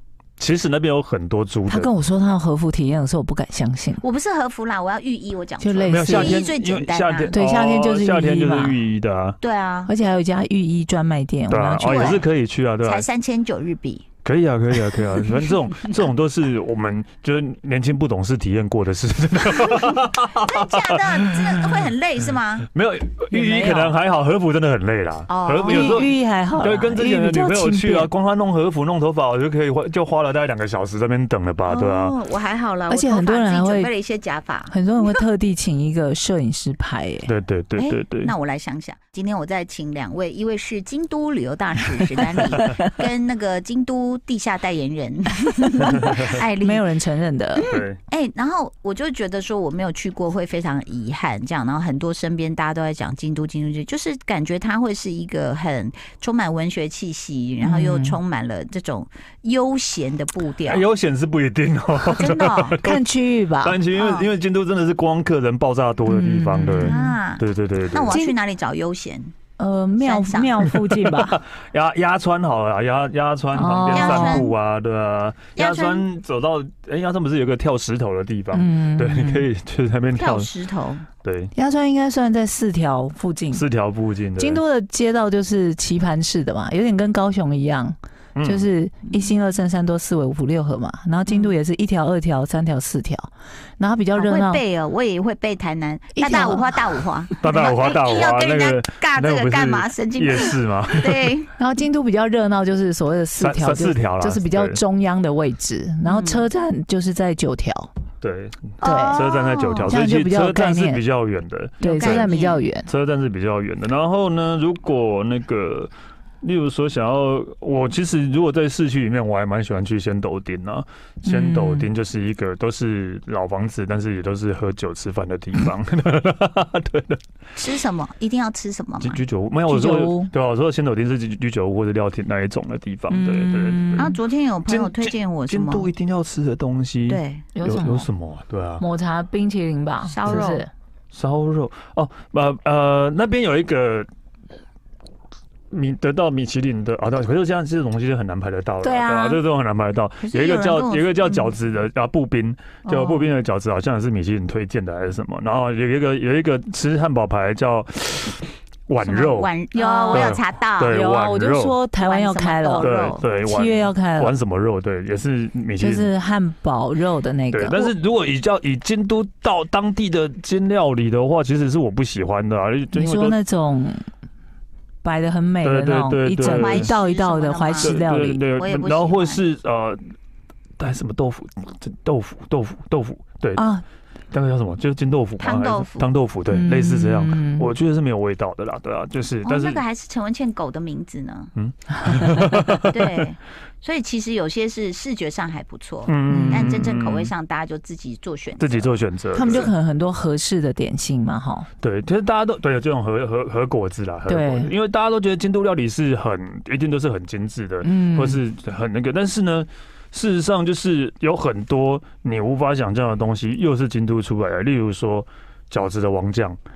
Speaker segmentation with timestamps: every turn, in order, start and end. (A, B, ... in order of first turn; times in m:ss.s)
0:00.4-0:01.9 A
0:01.7-0:04.0 B
0:04.0-0:07.4 C
0:05.6-0:06.5 B
0:05.8-0:09.4 A
0:07.3-0:08.8 B
0:09.4-0:09.9 C
0:09.9-0:12.2 B
0:11.5-0:13.1 A
0:11.8-0:12.2 C
0:12.8-0:14.1 C
0:14.2-0:20.5 A
0:20.3-0:22.7 C
0:21.2-0:21.8 A
0:22.7-0:32.2 A
0:23.3-0:24.0 B
0:25.3-0:26.1 C
0:25.7-0:28.1 B
0:31.6-0:35.2 C
0:32.9-0:33.9 B
0:34.7-0:37.3 B
0:37.3-0:38.3 A
0:37.8-0:46.9 C
0:46.0-0:46.4 A
0:46.6-0:47.6 B
0:47.6-1:00.8 C
0:47.7-0:48.0 A
0:57.6-0:58.2 B
1:00.7-1:03.0 A
1:02.2-1:02.8 C
1:02.8-1:03.8 B
1:03.6-1:08.2 A
1:03.9-1:04.3 C
1:06.1-1:07.1 B
1:06.7-1:09.4 C
1:08.1-1:08.4 B
1:09.6-1:11.4 B
1:10.0-1:10.6 C
1:10.6-1:20.5 A
1:13.5-1:14.5 B
1:13.9-1:14.5 C
1:15.6-1:16.1 C
1:18.5-1:19.5 B
1:20.1-1:21.1 C
1:21.2-1:21.5 A
1:21.6-1:23.6 B
1:23.5-1:24.6 A
1:24.4-1:34.6 B
1:28.4-1:28.7 A
1:31.3-1:31.5 C
1:34.2-1:41.5 C
1:36.2-1:37.0 B
1:37.4-1:41.3 A
1:41.6-1:47.9 B
1:43.4-1:44.8 A
1:46.0-1:46.5 C
1:48.2-1:52.3 A
1:48.8-1:50.0 C
1:48.8-1:49.2 B
1:49.9-1:51.0 B
1:51.8-1:52.6 C
1:51.8-1:52.9 B
1:52.9-2:07.2 A
2:01.3-2:01.9 B
2:07.6-2:09.2 C
2:09.0-2:14.2 A
2:09.7-2:10.3 B
2:13.1-2:14.2 B
2:14.0-2:15.9 C
2:14.7-2:18.8 A
2:17.1-2:17.5 C
2:17.6-2:18.1 B
2:18.8-2:20.7 B
2:20.0-2:20.6 C
2:21.1-2:24.1 A
2:25.7-2:39.5 A
2:28.8-2:29.2 B
2:28.9-2:29.4 C
2:30.2-2:31.6 C
2:32.9-2:33.3 B
2:39.0-2:41.0 C
2:39.7-2:40.3 B
2:40.1-2:41.8 A
2:40.9-2:44.4 B
2:42.0-2:43.2 C
2:42.8-2:46.1 A
2:45.8-2:47.8 B
2:47.5-2:53.4 A
2:52.9-2:54.0 B
2:55.0-2:58.4 B
2:55.6-2:57.0 A
2:56.4-2:59.4 C
2:57.8-3:00.0 A
3:00.8-3:03.6 A
3:03.6-3:03.8 B
3:04.3-3:09.8 A
3:05.4-3:06.1 C
3:06.5-3:07.7 B
3:09.4-3:11.5 C
3:11.6-3:13.0 A
3:12.8-3:18.9 C
3:16.1-3:17.3 A
3:16.3-3:16.9 B
3:18.6-3:19.7 A
3:19.3-3:21.7 B
3:19.4-3:19.7 C
3:21.8-3:36.6 A
3:24.3-3:24.7 B
3:27.8-3:28.4 B